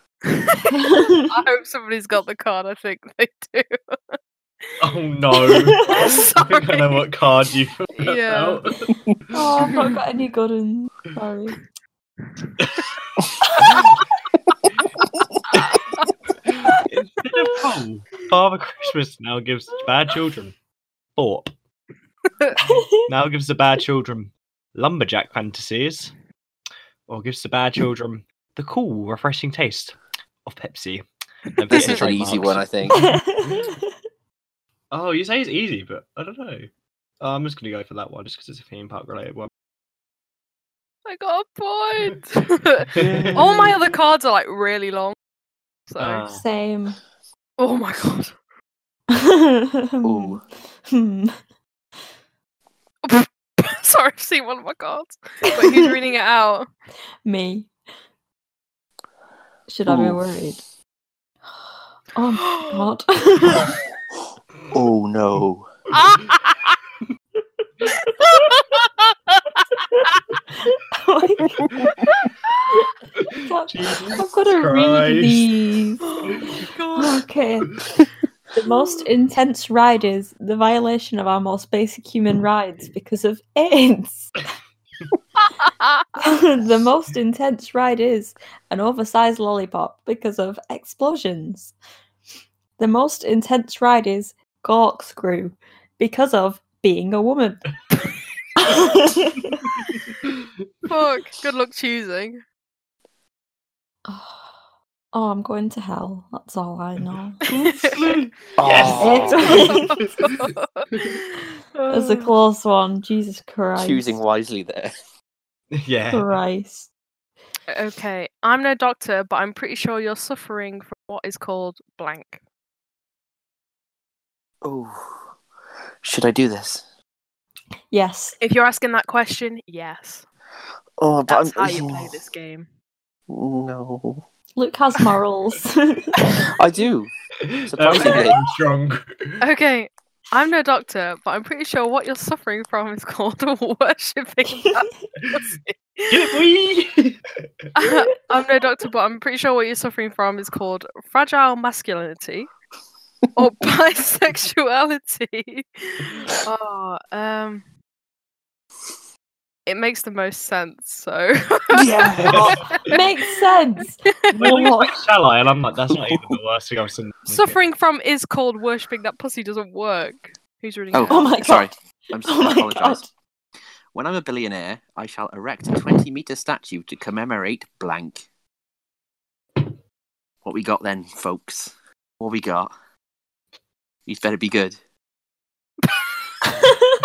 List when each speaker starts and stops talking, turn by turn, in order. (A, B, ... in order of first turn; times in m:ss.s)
0:00.3-0:04.7 A
0:00.7-0:01.3 B
0:04.8-0:09.8 C
0:05.4-0:05.9 B
0:05.8-0:07.1 A
0:08.0-0:08.6 A
0:09.3-0:11.6 B
0:09.6-0:10.0 A
0:13.6-0:14.0 C
0:15.5-0:20.6 C
0:15.6-0:16.1 A
0:21.2-0:21.5 C
0:22.6-0:23.1 B
0:23.1-0:26.1 C
0:27.1-0:30.0 C
0:30.5-0:33.7 C
0:31.7-0:32.0 A
0:31.7-0:33.1 D
0:32.9-0:33.9 B
0:34.9-0:36.7 C
0:37.2-0:39.5 C
0:41.1-0:45.2 A
0:42.9-0:43.7 C
0:43.0-0:43.8 D
0:45.9-0:46.2 A
0:46.0-0:46.4 C
0:46.3-0:47.0 B
0:47.6-0:48.4 A
0:49.1-0:51.4 B
0:50.0-0:50.4 D
0:53.0-0:56.7 A
0:55.5-0:55.9 B
0:57.2-0:57.7 B
0:59.7-1:00.6 B
0:59.9-1:00.2 D
1:02.1-1:03.8 B
1:02.5-1:02.8 A
1:04.7-1:05.7 D
1:05.9-1:06.7 A
1:08.2-1:09.4 A
1:09.9-1:11.7 B
1:12.1-1:12.5 A
1:13.4-1:16.1 B
1:13.7-1:15.5 C
1:16.0-1:17.2 A
1:16.3-1:16.6 C
1:17.0-1:17.7 B
1:18.5-1:24.3 B
1:25.4-1:26.0 A
1:26.2-1:31.7 B
1:32.8-1:37.6 B
1:38.6-1:39.6 B
1:39.5-1:40.3 C
1:40.9-1:42.4 A
1:44.1-1:44.5 B
1:45.1-1:47.4 B
1:47.4-1:50.4 C
1:47.5-1:48.2 A
1:48.6-1:49.7 D
1:48.9-1:50.0 B
1:49.4-1:52.3 A
1:51.9-1:54.2 B
1:53.8-1:54.9 D
1:55.7-1:56.4 C
1:56.1-1:56.9 B
1:57.7-2:02.4 A
2:04.6-2:05.2 D
2:06.0-2:06.8 D
2:07.9-2:08.4 B
2:08.4-2:10.3 A
2:11.0-2:12.1 D
2:11.3-2:12.7 A
2:13.3-2:14.2 D
2:14.6-2:16.2 B
2:16.6-2:17.1 D
2:17.5-2:19.4 C
2:17.6-2:18.4 D
2:18.0-2:18.4 A
2:19.4-2:26.4 A
2:26.1-2:27.2 C
2:27.8-2:32.5 A
2:33.4-2:37.6 A
2:39.7-2:42.8 A
2:41.7-2:42.7 D
2:42.2-2:42.8 C
2:42.9-2:45.0 B
2:44.1-2:44.7 A
2:44.3-2:47.6 C
2:45.9-2:46.4 D
2:47.3-2:51.4 A
2:50.9-2:53.1 D
2:51.0-2:51.7 B
2:52.2-2:53.0 B
2:53.9-2:58.3 D
3:00.4-3:02.7 D
3:04.1-3:04.8 D
3:06.5-3:06.9 B